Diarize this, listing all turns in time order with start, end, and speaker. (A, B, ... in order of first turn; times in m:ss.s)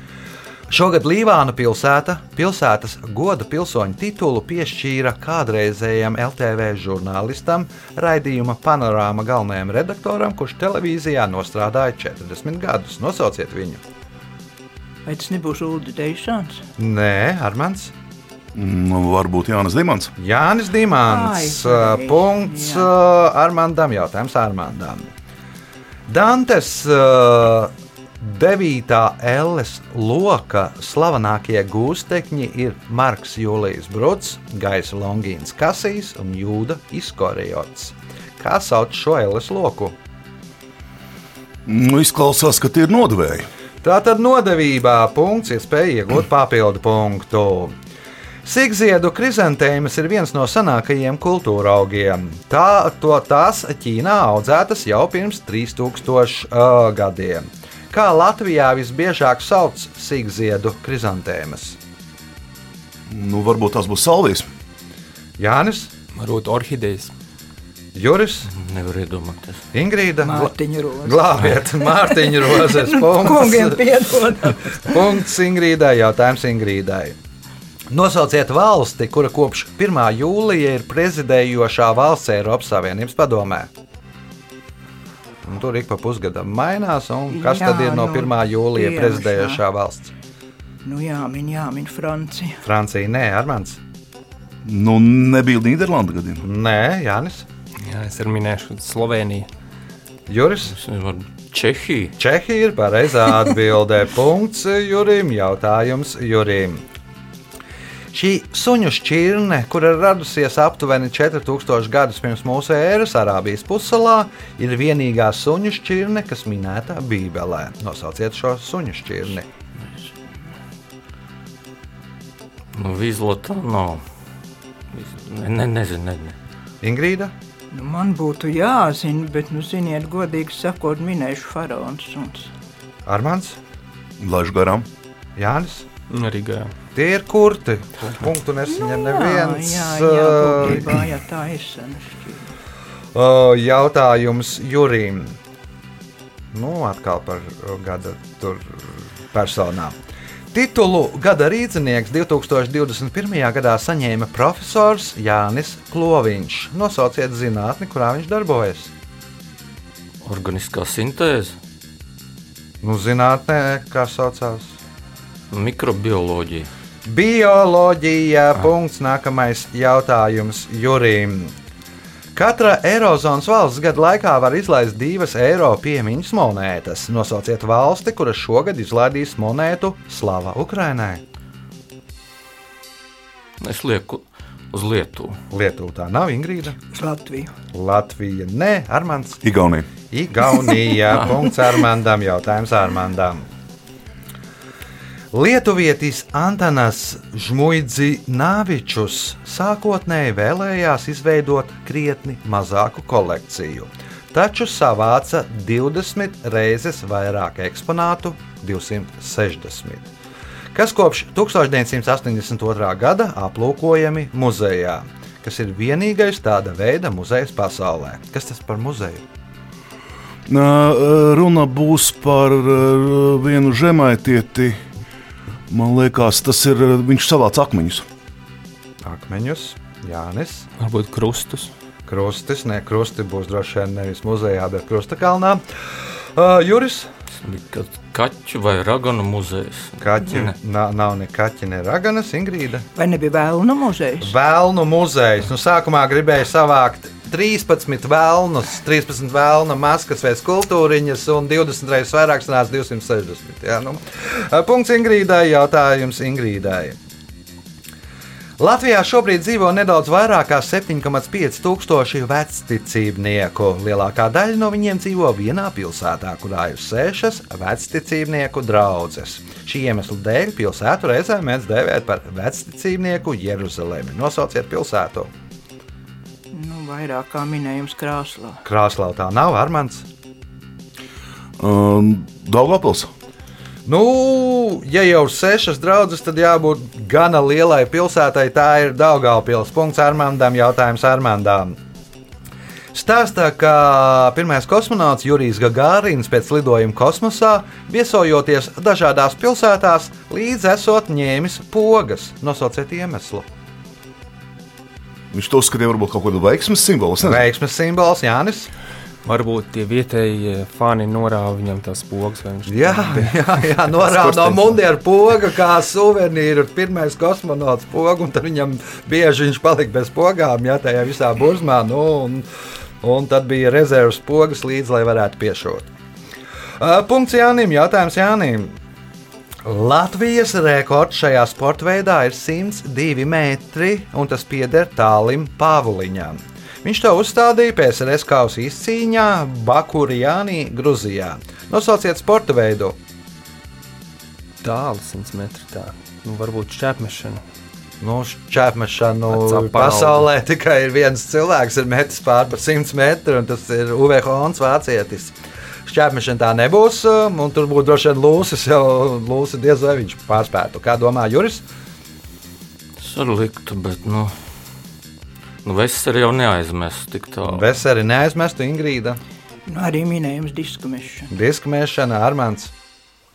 0:00.7-0:13.8 A
0:15.0-0:16.6 B
0:16.8-0:17.9 A
0:18.5-0:20.1 C
0:20.2-0:25.1 A
0:21.0-0:22.9 B
0:26.1-0:39.9 A
0:41.6-0:43.5 C
0:43.8-0:47.7 A
0:48.4-1:01.8 A
1:03.1-1:04.5 C
1:05.4-1:05.9 A
1:06.2-1:07.1 D
1:07.9-1:08.5 A
1:08.5-1:09.6 E
1:09.7-1:13.9 A
1:10.2-1:15.0 B
1:14.7-1:17.2 A
1:17.9-1:23.7 A
1:25.4-1:30.1 A
1:27.3-1:29.6 B
1:30.8-1:32.6 B
1:32.6-1:33.8 A
1:34.6-1:36.4 C
1:36.4-1:37.4 A
1:37.8-1:39.5 D
1:40.3-1:40.7 A
1:40.7-1:42.2 E
1:42.2-1:46.8 A
1:48.1-1:59.5 A
2:02.7-2:04.0 E
2:04.9-2:06.4 E
2:06.8-2:07.3 A
2:07.7-2:12.5 B
2:13.0-2:13.6 A
2:14.2-2:14.9 C
2:15.4-2:15.9 A
2:16.1-2:16.7 D
2:17.0-2:21.0 A
2:18.7-2:22.5 B
2:23.1-2:25.4 A
2:26.5-2:30.0 A
2:30.5-2:38.9 A
2:40.2-2:41.6 E
2:42.8-2:44.7 A
2:45.5-2:46.7 E
2:47.0-2:51.5 A
2:52.3-3:01.2 A
3:03.6-3:05.4 E
3:05.5-3:06.8 A
3:06.9-3:07.5 B
3:07.7-3:09.4 A
3:09.4-3:09.9 C
3:10.1-3:13.5 A
3:15.3-3:30.1 A
3:30.7-3:39.2 A
3:40.5-3:44.8 C
3:45.7-3:48.0 C
3:49.0-3:50.7 A
3:50.8-3:51.7 D
3:52.1-3:57.1 A
3:57.4-4:00.5 E
4:00.0-4:02.8 A
4:03.0-4:04.3 B
4:04.2-4:17.0 A
4:18.6-4:35.3 A
4:36.5-4:38.6 B
4:38.6-4:40.0 A
4:41.6-4:43.1 C
4:43.8-4:51.8 A
4:52.9-5:03.5 A
5:05.3-5:07.4 C
5:07.2-5:08.7 A
5:09.2-5:14.7 D
5:12.7-5:22.4 A
5:23.0-5:25.9 A
5:26.8-5:28.8 A
5:29.6-5:43.0 A
5:44.6-5:47.4 D
5:48.0-5:55.3 A
5:49.3-5:50.3 D
5:55.8-6:01.6 A
6:03.0-6:04.3 E
6:05.6-6:07.7 E
6:07.5-6:09.2 A
6:09.7-6:11.3 B
6:11.3-6:12.7 A